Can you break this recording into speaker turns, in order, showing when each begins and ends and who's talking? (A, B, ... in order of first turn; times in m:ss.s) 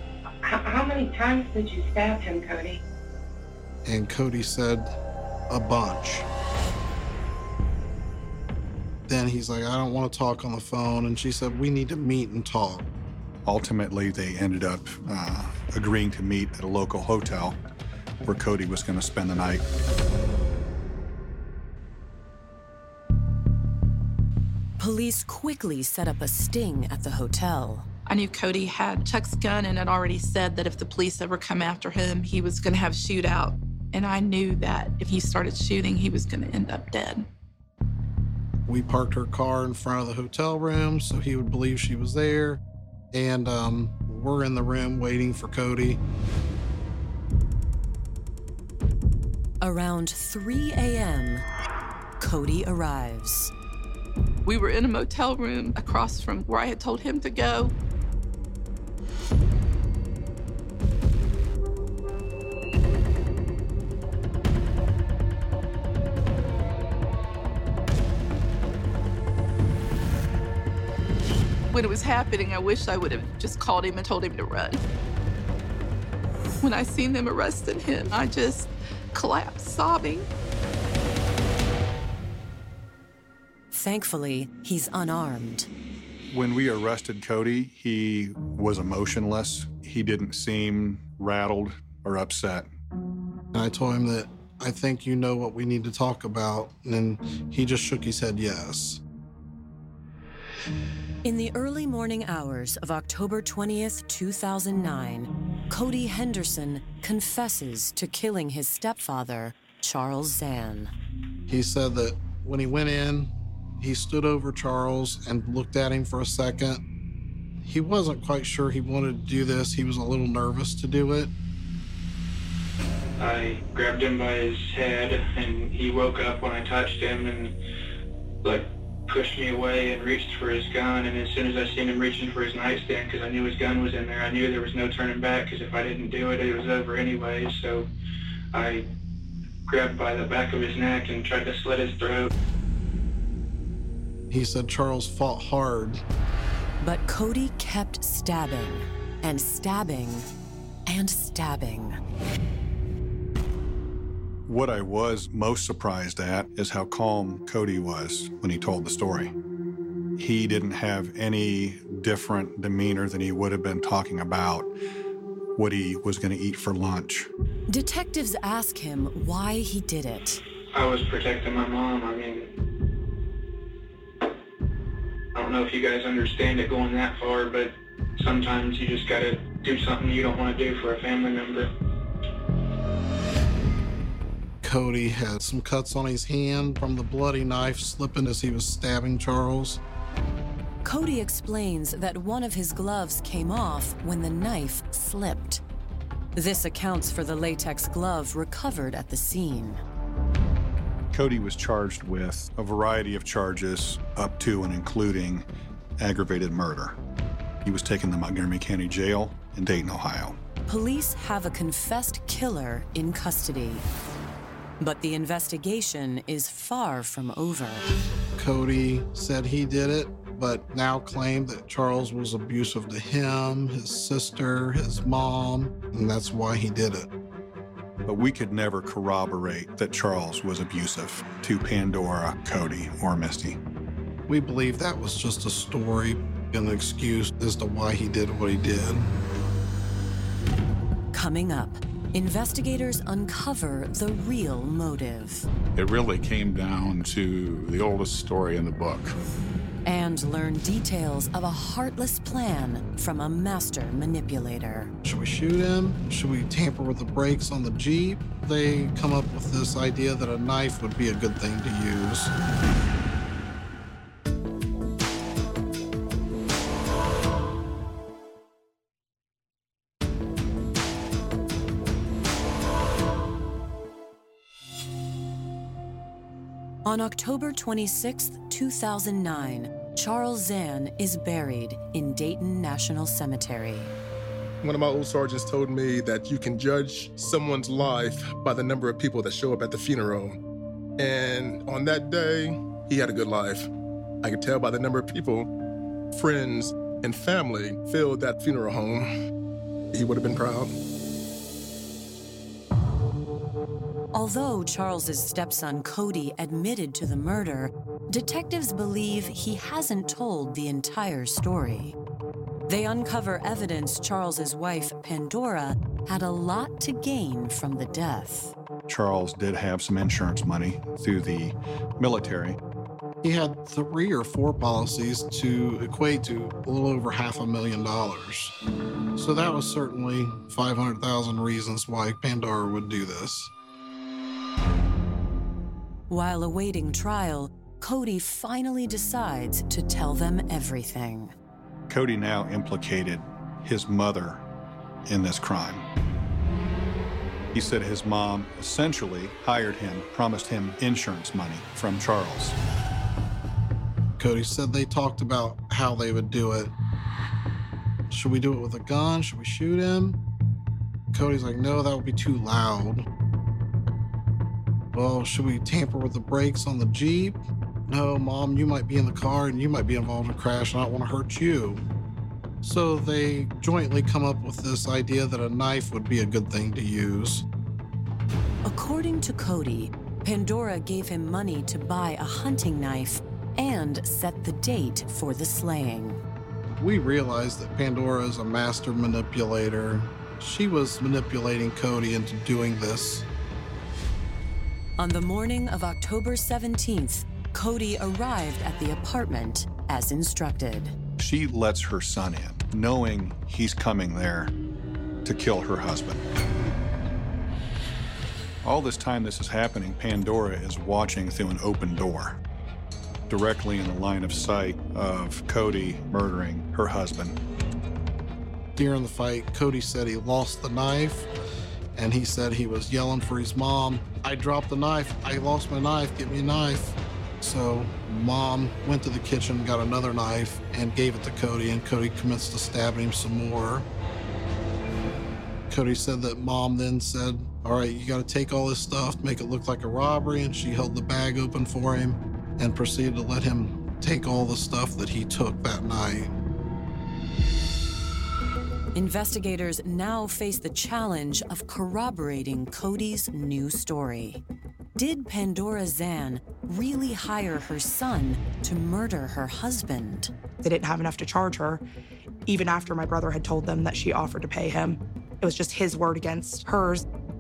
0:00.4-0:02.8 A
0:03.8-0:05.0 B
0:05.5-0:06.3 B
0:09.1-0:12.9 B
0:13.4-0:17.6 C
0:18.2-0:19.6 C
0:24.8-0:27.9 D
0:28.1-0:37.3 E
0:38.7-0:42.6 B
0:43.1-0:46.0 B
0:49.6-0:51.4 D
0:52.2-0:53.5 D
0:54.4-0:57.7 E
1:11.7-1:14.8 E
1:16.6-1:20.3 E
1:23.7-1:25.7 D
1:26.3-1:32.7 C
1:33.5-1:39.0 B
1:41.2-1:50.9 D
1:51.5-1:56.8 B
1:57.6-2:01.3 B
2:03.2-2:07.6 F
2:08.4-2:17.9 F
2:18.5-2:18.9 F
2:19.7-2:22.3 F
2:24.3-2:26.0 B
2:26.8-2:30.3 D
2:30.9-2:32.0 D
2:34.5-2:39.3 C
2:40.2-2:44.7 C
2:45.6-2:47.3 C
2:47.7-2:50.4 D
2:50.7-2:52.5 F
2:55.4-3:01.7 F
3:04.6-3:09.8 B
3:10.8-3:15.6 D
3:16.4-3:19.8 D
3:21.1-3:25.4 C
3:26.0-3:27.0 C
3:27.6-3:30.4 C
3:30.7-3:33.8 D
3:34.8-3:37.9 D
3:38.4-3:47.1 B
3:48.1-3:53.6 C
3:54.3-3:59.1 B
4:01.1-4:05.5 D
4:05.8-4:09.2 G
4:09.8-4:14.9 D
4:15.0-4:22.3 B
4:36.8-4:43.9 D
4:44.6-4:50.4 H
4:51.0-4:53.7 H
4:54.2-4:55.5 H
4:56.1-4:59.1 H
4:59.9-5:00.7 H
5:04.1-5:12.0 D
5:12.7-5:18.5 D
5:18.9-5:22.6 C
5:23.2-5:28.5 B
5:29.2-5:33.5 B
5:36.1-5:41.3 D
5:41.9-5:44.4 C
5:45.1-5:45.8 C
5:47.5-5:52.6 C
5:54.2-5:56.7 B
5:58.1-6:00.2 B
6:01.1-6:03.1 B
6:04.9-6:11.8 B
6:12.6-6:17.4 B
6:18.6-6:26.2 D
6:26.8-6:33.3 B
6:35.0-6:41.0 D
6:41.2-6:44.5 C
6:45.2-6:46.2 C
6:48.6-6:52.4 C
6:53.3-6:57.4 C
6:58.8-7:01.3 B
7:01.9-7:13.9 B
7:15.7-7:26.4 B
7:28.9-7:34.4 D
7:35.0-7:40.3 D
7:40.6-7:41.8 I
7:42.5-7:47.0 I